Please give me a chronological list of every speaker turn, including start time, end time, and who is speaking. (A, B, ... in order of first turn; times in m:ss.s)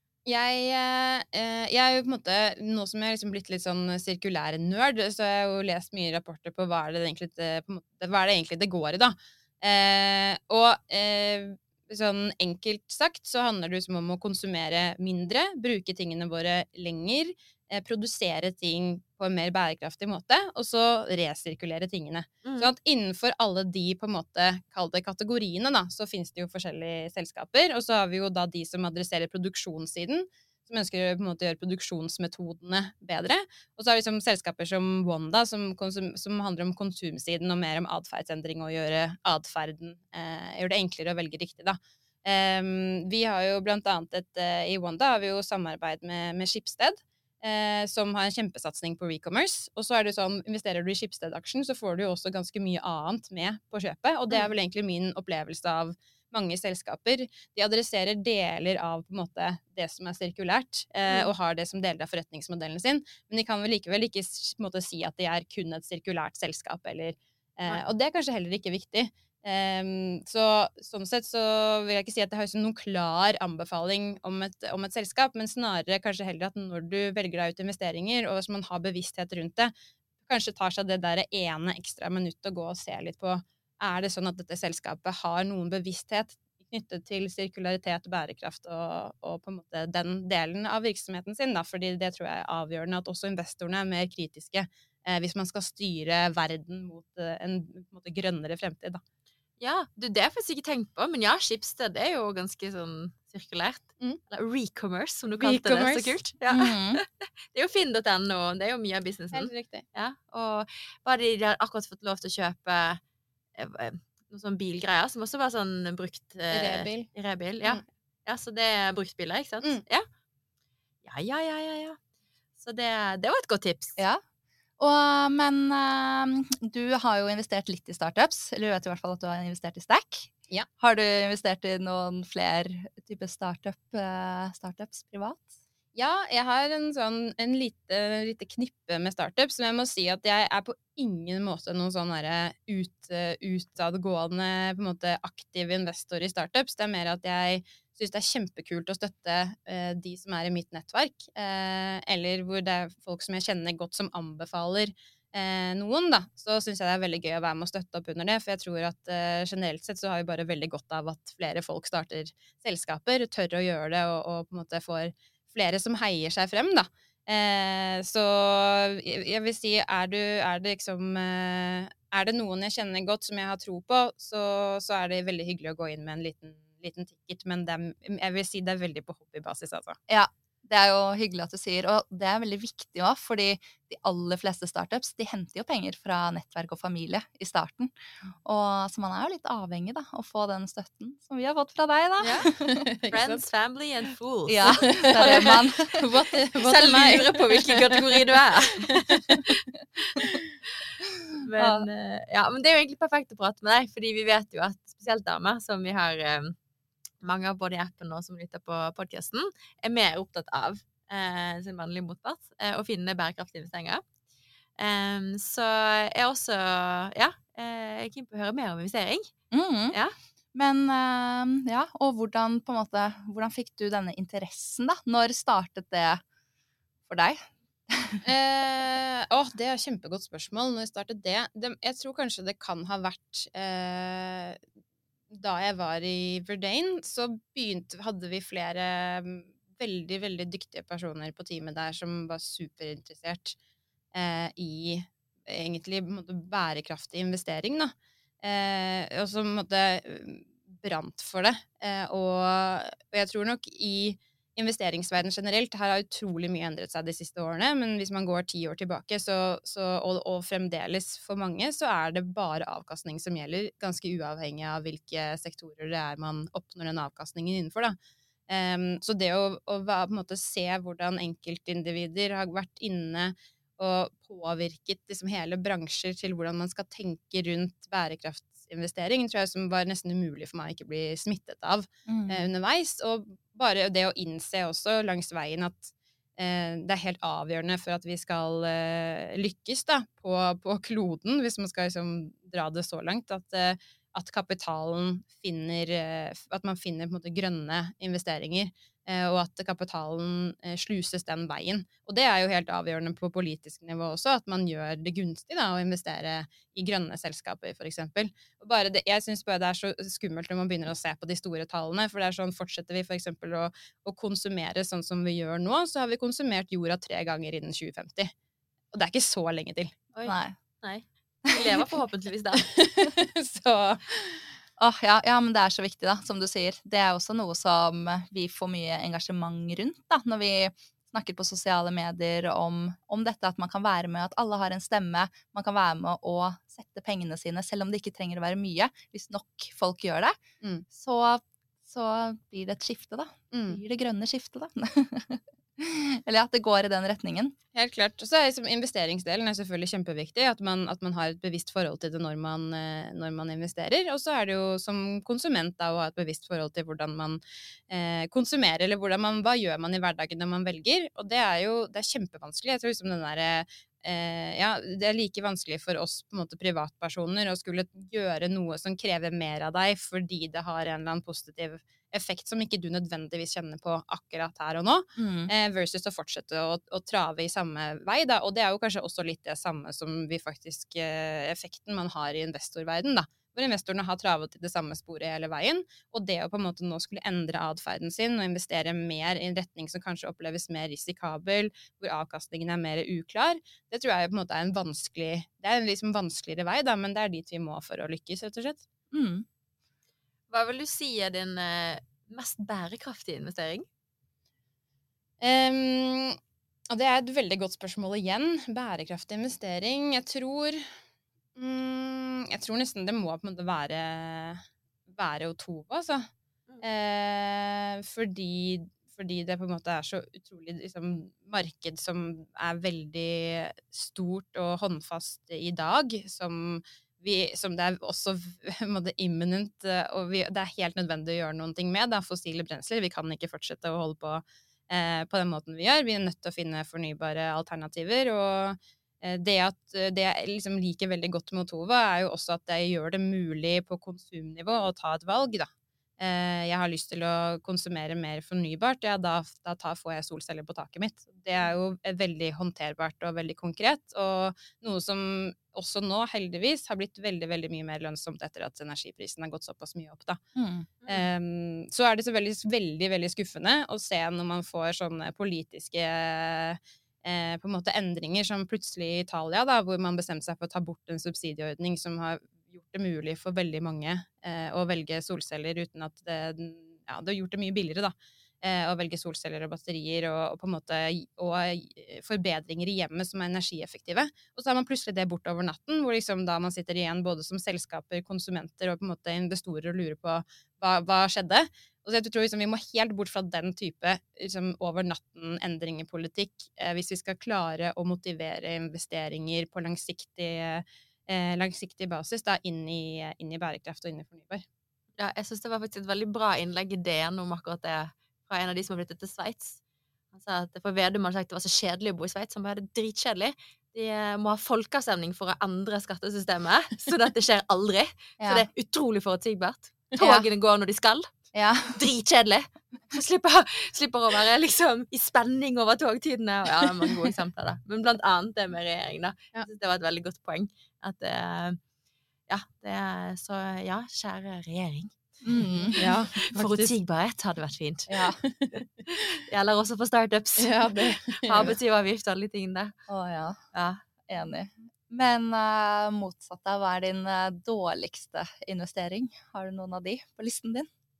0:00.2-1:19.7 A
0:22.4-0:22.7 B
1:20.2-1:39.0 A
1:39.6-1:53.0 B
1:45.4-1:46.2 A
1:46.5-1:47.0 C
1:49.3-1:49.8 A
1:53.6-2:00.0 B
1:56.5-1:57.1 A
2:01.0-2:02.0 B
2:02.6-2:04.0 B
2:04.8-2:15.5 C
2:15.9-3:00.0 A
3:00.1-3:12.8 C
3:12.2-3:13.4 A
3:13.1-3:15.6 B
3:14.5-3:16.0 C
3:15.0-3:18.2 A
3:16.6-3:18.9 B
3:18.8-3:19.5 A
3:21.3-3:26.5 B
3:21.6-3:21.9 C
3:27.2-3:34.0 B
3:34.8-3:39.3 B
3:39.5-3:40.0 C
3:40.5-3:46.2 C
3:47.1-3:48.2 C
3:48.2-3:54.6 A
3:55.3-4:03.6 A
4:04.1-4:28.0 A
4:28.5-5:18.3 A
4:42.1-4:42.5 C
5:18.9-5:19.9 A
5:20.1-5:22.7 B
5:20.2-5:20.6 C
5:22.7-5:24.4 A
5:24.8-5:40.4 C
5:40.9-5:47.5 C
5:43.5-5:43.8 A
5:47.7-6:38.8 A
6:15.2-6:15.5 C
6:39.1-6:39.4 C
6:40.5-6:43.8 B
6:45.4-6:46.4 A
6:46.9-6:50.9 A
6:51.6-6:54.6 A
6:55.1-6:56.3 A
6:56.8-7:40.4 A
7:40.6-7:41.0 C
7:41.1-8:24.6 A
8:25.2-8:29.8 B
8:30.3-8:41.3 B
8:38.4-8:38.7 C
8:40.2-8:40.4 C
8:41.5-8:42.0 C
8:41.9-8:51.8 B
8:52.5-8:55.2 B
8:55.4-8:56.2 C
8:55.8-8:58.2 B
8:56.0-8:56.9 A
8:58.1-8:58.4 C
8:58.4-8:58.8 A
8:59.4-9:03.0 B
9:00.6-9:01.7 A
9:03.1-9:03.6 C
9:03.7-9:04.0 B
9:04.3-9:10.9 C